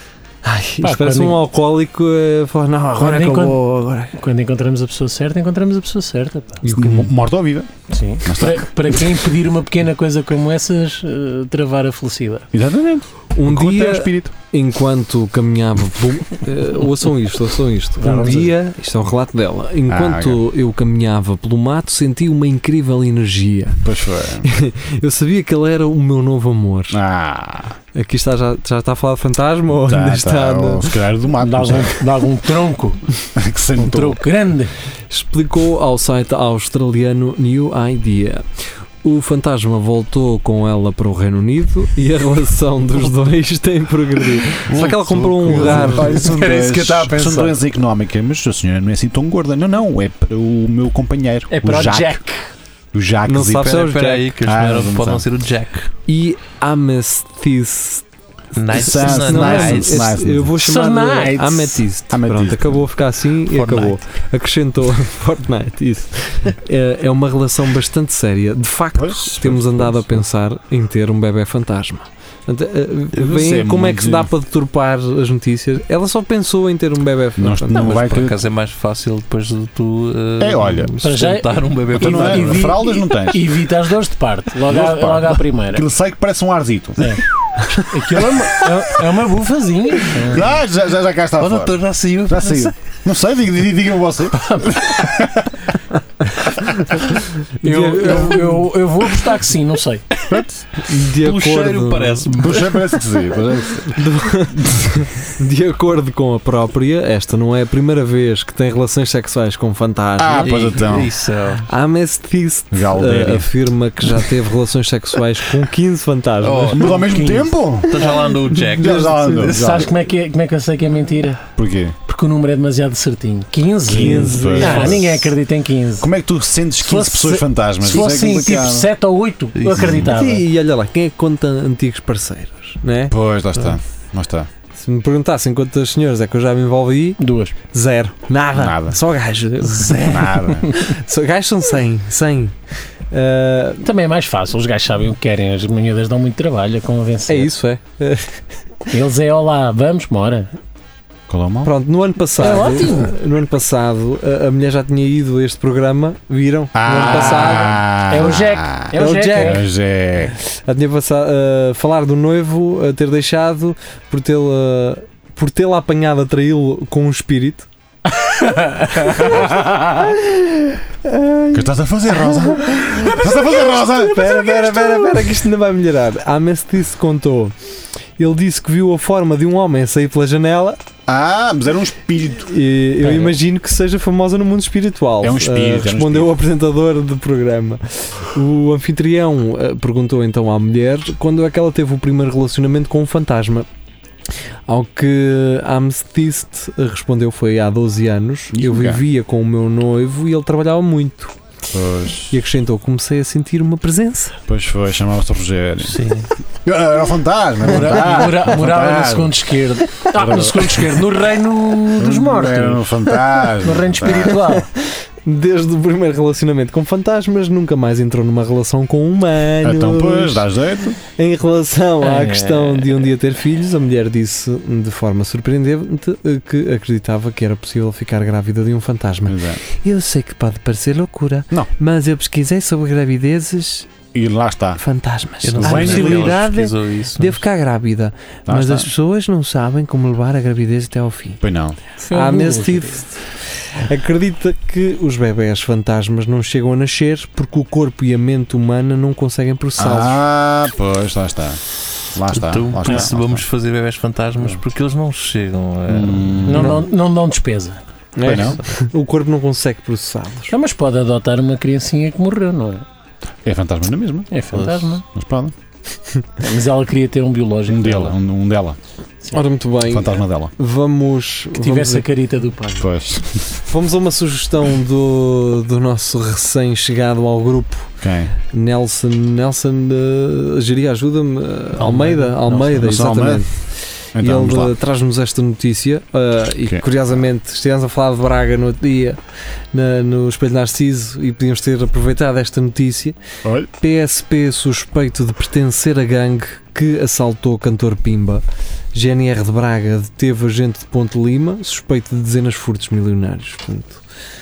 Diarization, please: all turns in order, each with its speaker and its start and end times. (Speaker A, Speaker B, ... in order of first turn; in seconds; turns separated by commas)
Speaker A: 0.4-4.1, Speaker B: 0.8-1.4, Speaker B: 3.0-3.6, Speaker B: 4.1-6.6, Speaker A: 6.6-7.1, Speaker C: 6.7-7.7, Speaker B: 7.9-12.5, Speaker C: 8.2-9.1, Speaker C: 12.5-14.3, Speaker A: 13.3-23.9, Speaker B: 18.0-18.5, Speaker C: 19.9-20.4, Speaker C: 23.8-24.5, Speaker A: 24.4-27.0, Speaker C: 26.9-27.8, Speaker A: 27.9-30.9, Speaker C: 29.8-32.0, Speaker B: 31.4-33.0, Speaker C: 33.3-34.2, Speaker B: 33.8-34.7, Speaker A: 35.1-38.4, Speaker A: 39.0-46.5, Speaker D: 44.7-46.1, Speaker C: 45.5-52.2, Speaker B: 45.9-47.5, Speaker B: 51.5-52.5, Speaker C: 52.9-53.7, Speaker A: 53.2-54.4, Speaker D: 53.5-55.9, Speaker C: 54.4-55.2, Speaker A: 56.1-58.0, Speaker D: 58.5-60.0, Speaker C: 58.7-60.5, Speaker A: 58.8-77.9, Speaker B: 60.6-61.8, Speaker C: 62.1-62.8, Speaker D: 63.5-64.0, Speaker C: 68.9-70.2, Speaker C: 73.1-74.3, Speaker C: 77.4-78.3, Speaker D: 77.7-82.7, Speaker C: 80.4-80.9, Speaker B: 81.0-85.9, Speaker C: 81.9-83.5, Speaker C: 84.6-87.2, Speaker B: 87.9-90.5, Speaker C: 90.2-95.6, Speaker D: 91.4-92.7, Speaker B: 94.4-94.8, Speaker A: 96.4-98.7, Speaker B: 97.6-100.1, Speaker C: 100.3-100.7, Speaker A: 100.8-102.3, Speaker D: 101.2-103.0, Speaker C: 102.3-104.0, Speaker A: 103.9-110.8, Speaker C: 104.5-104.9, Speaker C: 110.2-111.1, Speaker D: 110.4-111.7, Speaker A: 111.7-117.0, Speaker C: 112.7-113.5, Speaker D: 116.4-117.0, Speaker C: 116.7-118.0, Speaker B: 117.1-117.5, Speaker D: 117.9-119.1, Speaker A: 118.0-119.5, Speaker C: 118.7-119.9, Speaker B: 119.5-121.4, Speaker C: 121.5-121.9, Speaker B: 122.0-126.1, Speaker C: 123.9-125.3, Speaker A: 123.9-125.1, Speaker C: 126.0-128.9, Speaker B: 126.8-130.4, Speaker D: 127.9-128.4, Speaker D: 129.6-130.0, Speaker C: 129.8-130.1, Speaker A: 130.1-133.1, Speaker C: 133.1-134.5, Speaker A: 134.7-142.5, Speaker B: 137.2-137.5, Speaker C: 138.5-139.0, Speaker C: 140.0-140.7, Speaker A: 143.1-143.8, Speaker B: 143.8-147.5, Speaker A: 147.3-148.4, Speaker B: 148.9-150.5, Speaker C: 151.3-151.7, Speaker A: 151.6-158.3, Speaker B: 152.4-153.1, Speaker C: 156.7-160.3, Speaker B: 156.9-159.6, Speaker A: 158.9-159.6, Speaker A: 160.6-167.7, Speaker A: 168.8-177.5, Speaker C: 169.3-169.7, Speaker C: 171.5-174.3, Speaker A: 178.2-180.8, Speaker C: 181.1-182.5, Speaker A: 182.4-193.7, Speaker C: 185.2-186.3, Speaker A: 194.7-201.3, Speaker C: 198.5-199.0, Speaker C: 201.7-202.4, Speaker A: 202.3-204.4, Speaker C: 204.5-206.0, Speaker D: 205.9-206.2, Speaker C: 206.6-209.4, Speaker B: 207.7-212.9, Speaker C: 210.1-211.0, Speaker C: 212.0-214.4, Speaker B: 213.6-214.7, Speaker A: 214.6-220.5, Speaker C: 219.6-221.0, Speaker A: 221.0-233.9, Speaker B: 222.0-223.0, Speaker C: 229.2-229.6, Speaker C: 234.1-234.8, Speaker A: 234.8-241.4, Speaker D: 235.4-237.4, Speaker C: 235.6-236.4, Speaker C: 238.5-238.9, Speaker C: 241.4-241.8, Speaker A: 242.0-250.2, Speaker B: 242.1-243.0, Speaker C: 249.8-251.6, Speaker C: 252.1-253.4, Speaker D: 252.3-256.5, Speaker C: 255.9-256.8, Speaker B: 256.4-257.8, Speaker A: 256.5-256.8, Speaker A: 258.1-260.5, Speaker C: 258.2-258.6, Speaker B: 260.5-262.8, Speaker C: 263.4-264.4, Speaker B: 264.3-265.0, Speaker D: 264.6-264.9, Speaker C: 265.1-265.5, Speaker B: 266.4-268.1, Speaker C: 267.7-268.8, Speaker A: 269.3-272.0, Speaker C: 269.8-270.5, Speaker B: 271.6-272.9, Speaker C: 272.8-273.5, Speaker A: 273.6-289.2, Speaker C: 278.0-278.3, Speaker B: 281.8-282.8, Speaker C: 282.8-283.5, Speaker C: 284.1-284.7, Speaker A: 289.7-293.1, Speaker C: 293.4-293.7, Speaker A: 293.8-298.4, Speaker A: 298.9-304.0